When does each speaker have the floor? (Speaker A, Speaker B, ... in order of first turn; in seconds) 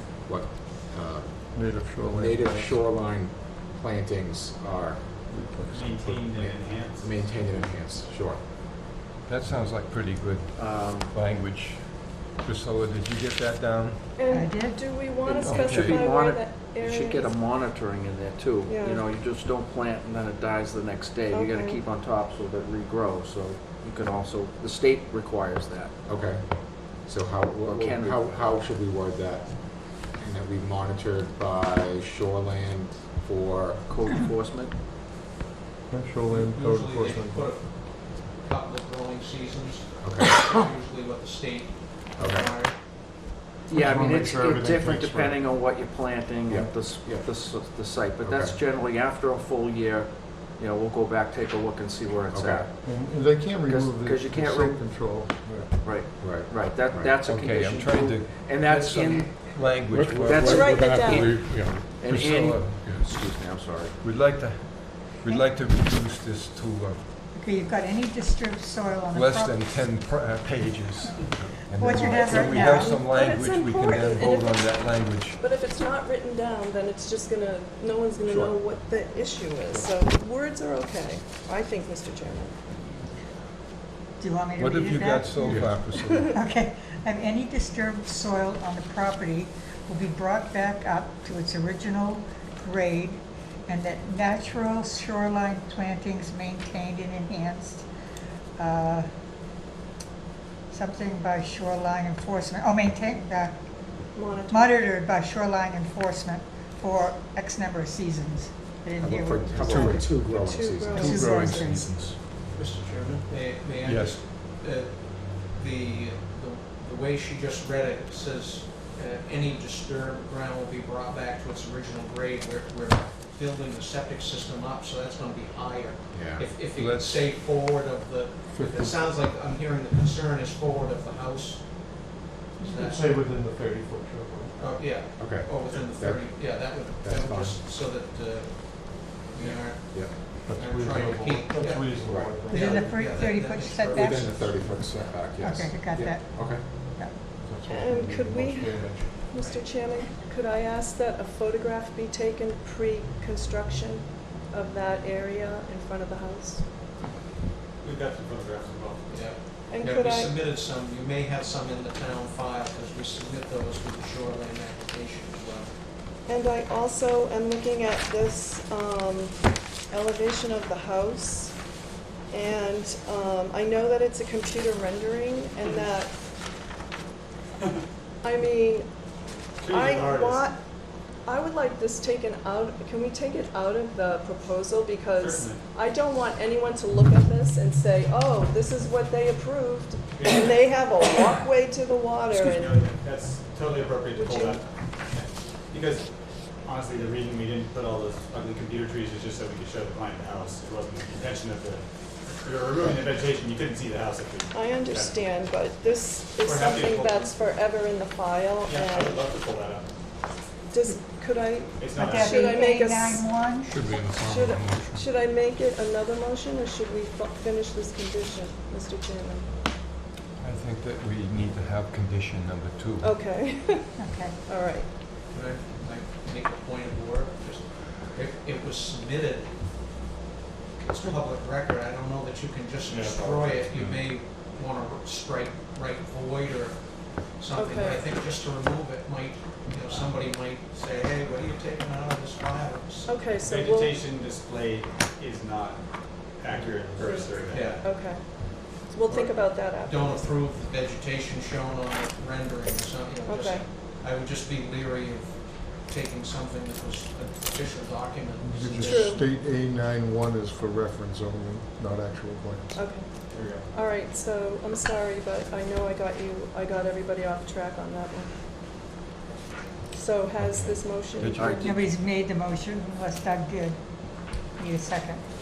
Speaker A: 0.2-8.4, 26.0-33.9, 40.0-40.4, 42.2-42.5, 46.5-47.4, 48.2-48.6, 52.3-52.7, 56.1-57.2, 59.9-62.0, 62.8-63.1, 78.2-78.6, 85.4-85.8, 109.0-111.1, 126.1-126.5, 135.2-137.6, 139.9-140.2, 142.0-142.3, 143.9-146.7, 213.7-215.0
Speaker B: 1.5-2.8, 5.3-5.9, 35.9-37.5, 43.7-45.4, 52.8-55.7, 128.5-128.9, 133.0-134.6, 140.4-142.6, 147.4-149.1, 258.4-262.8
Speaker C: 5.7-7.7, 157.8-159.3, 179.6-180.5, 185.2-185.6, 190.1-190.5, 192.4-201.8, 202.4-205.2, 206.4-207.3, 208.7-209.9, 211.8-212.3, 232.9-233.9, 243.4-247.9, 263.3-263.7
Speaker D: 9.2-14.1, 15.4-16.1, 57.2-63.0, 64.0-67.1, 69.1-75.4, 84.6-86.3, 109.6-110.0, 111.3-112.1, 113.8-114.2, 126.7-127.4, 220.4-223.2, 270.4-271.9
Speaker E: 10.5-11.1, 15.2-25.9, 27.6-28.5, 33.9-34.7, 43.7-52.7, 53.6-54.9, 55.7-59.3, 60.1-60.9, 61.9-64.0
Speaker F: 14.1-17.6, 18.6-19.1, 21.2-21.9, 60.4-61.3, 71.9-82.6, 85.9-86.3, 104.1-104.9, 110.4-111.2, 147.6-156.7, 159.7-160.3, 166.2-171.6, 172.3-176.1, 178.2-178.9, 179.6-180.6, 181.1-192.8, 194.1-194.6, 204.5-209.2, 210.7-219.5, 223.0-225.1, 237.5-238.0, 243.0-244.1, 247.0-250.3, 253.2-253.7, 258.8-259.2, 262.7-268.4, 269.9-271.8
Speaker G: 14.3-15.2, 67.3-69.7, 71.7-72.9, 84.2-97.9, 98.6-99.1, 100.7-110.3, 110.9-111.9, 132.6-132.9, 142.5-144.4, 145.4-147.2, 211.9-213.9, 224.0-224.4, 271.6-275.2
Speaker H: 36.3-42.7, 58.5-59.5, 112.3-133.1, 134.6-144.5, 149.3-149.6, 159.1-165.7, 225.3-229.6, 230.8-243.2, 247.5-247.8, 249.1-259.1